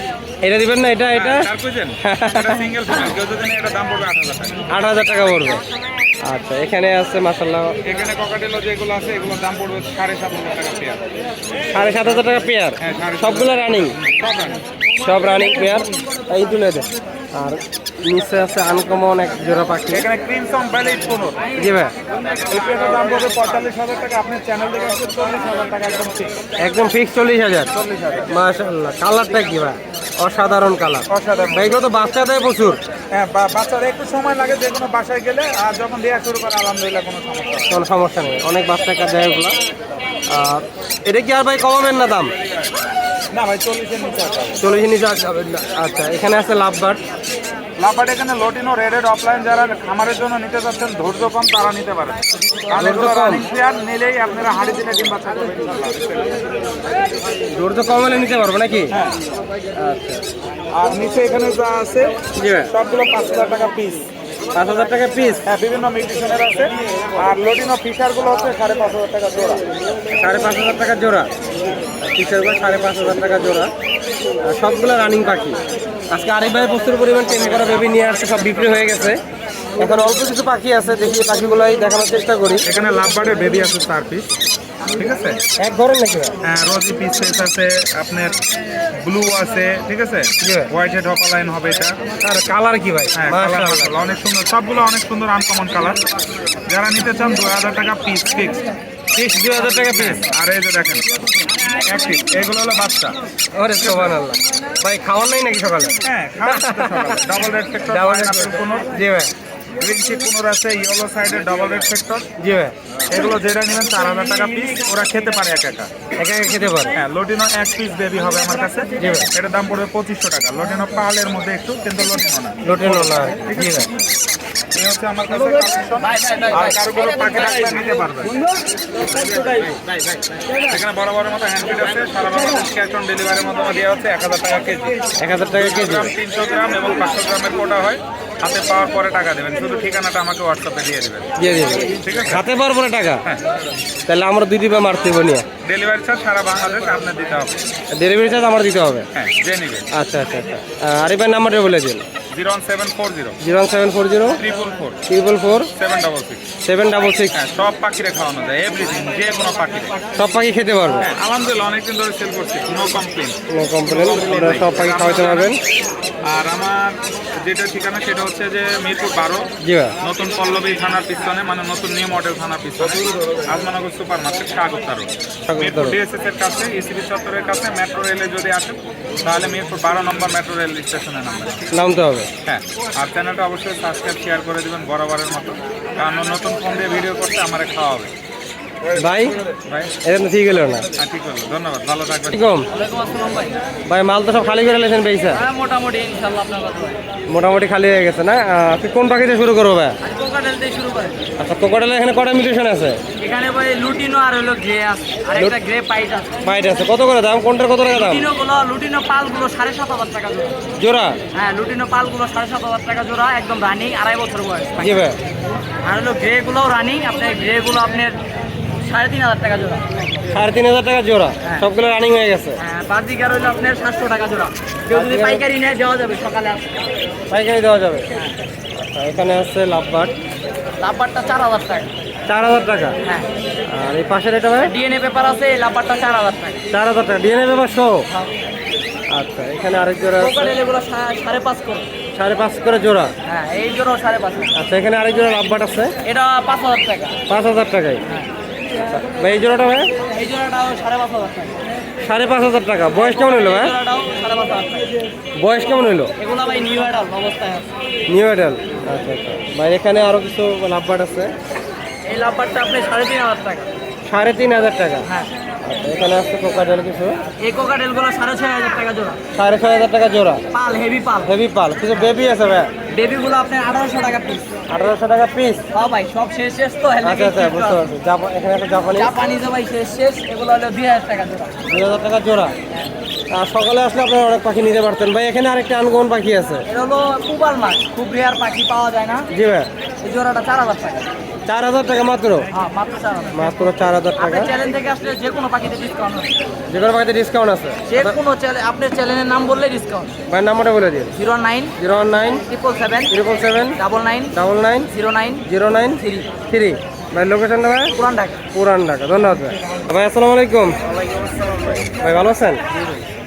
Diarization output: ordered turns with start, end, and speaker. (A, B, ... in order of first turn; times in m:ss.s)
0:00.4-0:01.5 A
0:01.1-0:04.6 B
0:02.0-0:02.7 A
0:04.7-0:05.6 A
0:06.2-0:07.7 A
0:07.8-0:11.0 B
0:11.7-0:14.0 A
0:12.8-0:14.6 B
0:15.0-0:20.1 A
0:19.9-0:21.5 B
0:21.4-0:21.7 C
0:21.5-0:21.9 A
0:22.2-0:23.3 C
0:22.3-0:26.3 B
0:26.6-0:27.8 A
0:27.7-0:28.3 B
0:28.3-0:32.8 A
0:31.1-0:31.8 B
0:33.1-0:37.8 B
0:37.7-0:39.6 A
0:40.3-0:42.3 A
0:43.3-0:44.6 B
0:44.6-0:47.0 A
0:47.8-0:56.4 B
0:52.7-0:53.5 A
0:57.5-0:59.0 A
0:58.9-0:59.2 B
0:59.8-1:00.2 A
1:00.7-1:02.2 B
1:02.4-1:02.7 A
1:02.7-1:04.1 B
1:04.5-1:05.4 A
1:05.4-1:09.6 B
1:10.1-1:11.3 A
1:12.0-1:13.7 A
1:14.4-1:19.2 A
1:17.5-1:19.1 B
1:19.8-1:22.7 A
1:22.6-1:24.3 B
1:25.0-1:25.4 B
1:25.6-1:26.3 A
1:26.4-1:28.4 B
1:29.0-1:32.0 B
1:30.4-1:30.7 A
1:32.2-1:34.2 A
1:33.1-1:36.0 B
1:36.7-1:38.6 B
1:39.1-1:40.3 A
1:39.7-1:41.1 B
1:41.8-1:43.2 B
1:43.5-1:47.2 A
1:43.8-1:44.1 B
1:46.0-1:48.9 B
1:47.9-1:49.3 A
1:49.8-1:52.3 B
1:52.4-1:52.7 A
1:53.1-1:55.9 B
1:56.2-1:57.0 A
1:56.9-2:03.0 B
1:59.0-1:59.3 A
2:02.6-2:03.9 A
2:04.7-2:08.3 B
2:06.0-2:07.9 C
2:09.0-2:10.2 C
2:10.7-2:15.0 B
2:15.2-2:16.1 A
2:15.5-2:21.3 B
2:21.4-2:23.2 A
2:22.0-2:22.4 B
2:24.1-2:25.4 A
2:25.6-2:27.6 B
2:27.9-2:29.1 A
2:29.1-2:29.9 B
2:29.9-2:32.0 A
2:32.3-2:33.4 B
2:33.4-2:34.4 A
2:34.3-2:35.0 B
2:35.1-2:35.7 A
2:35.7-2:36.4 B
2:36.6-2:37.4 A
2:37.3-2:40.0 B
2:40.1-2:41.1 A
2:41.0-2:43.4 B
2:43.5-2:45.6 A
2:43.9-2:45.6 B
2:46.2-2:49.5 B
2:49.6-2:49.9 A
2:50.0-3:01.6 B
2:55.4-2:56.0 A
3:01.7-3:02.3 A
3:02.4-3:08.1 B
3:08.8-3:09.9 B
3:09.0-3:09.4 A
3:10.0-3:10.9 A
3:11.0-3:12.4 B
3:12.3-3:12.7 A
3:12.7-3:13.6 C
3:13.8-3:15.4 A
3:15.3-3:17.0 C
3:17.3-3:20.0 A
3:20.0-3:21.2 C
3:21.4-3:23.0 A
3:23.2-3:26.3 C
3:26.4-3:28.3 A
3:27.8-3:30.5 C
3:30.8-3:31.2 A
3:31.3-3:35.0 C
3:34.8-3:35.2 A
3:35.8-3:38.2 C
3:38.8-3:39.8 C
3:40.3-3:42.6 A
3:42.6-3:46.7 C
3:44.9-3:45.4 A
3:47.3-3:48.1 A
3:48.7-3:50.1 A
3:50.8-3:51.9 C
3:52.3-3:52.9 A
3:53.7-3:54.7 A
3:54.6-3:56.6 C
3:56.7-3:58.0 A
3:59.1-4:00.6 A
4:00.2-4:01.9 C
4:02.1-4:03.1 A
4:03.2-4:04.5 C
4:04.5-4:05.9 A
4:06.0-4:07.2 C
4:07.3-4:08.0 A
4:08.7-4:09.9 A
4:10.1-4:11.6 C
4:12.0-4:13.7 A
4:12.9-4:14.9 C
4:15.4-4:16.1 A
4:16.2-4:17.7 C
4:18.1-4:21.3 A
4:22.0-4:23.7 C
4:24.0-4:25.1 A
4:25.6-4:27.2 A
4:27.4-4:29.2 C
4:29.3-4:30.4 A
4:30.5-4:31.3 C
4:31.2-4:32.7 A
4:32.9-4:34.4 C
4:34.7-4:35.6 A
4:35.7-4:37.8 C
4:37.0-4:39.2 A
4:38.9-4:41.5 C
4:41.7-4:42.6 A
4:43.3-4:46.6 A
4:46.7-4:49.3 C
4:49.3-4:49.7 A
4:50.0-4:51.1 C
4:51.4-4:52.5 A
4:52.5-4:53.6 C
4:53.3-4:54.5 A
4:54.2-4:56.3 C
4:56.7-4:58.2 A
4:57.9-5:00.1 C
5:00.3-5:01.2 A
5:01.1-5:01.7 C
5:01.8-5:02.4 A
5:02.4-5:03.2 C
5:03.1-5:03.8 A
5:03.8-5:06.3 C
5:04.3-5:04.9 A
5:05.4-5:08.0 A
5:07.9-5:08.4 C
5:08.5-5:10.8 A
5:10.9-5:11.9 C
5:12.0-5:12.6 A
5:12.7-5:13.0 C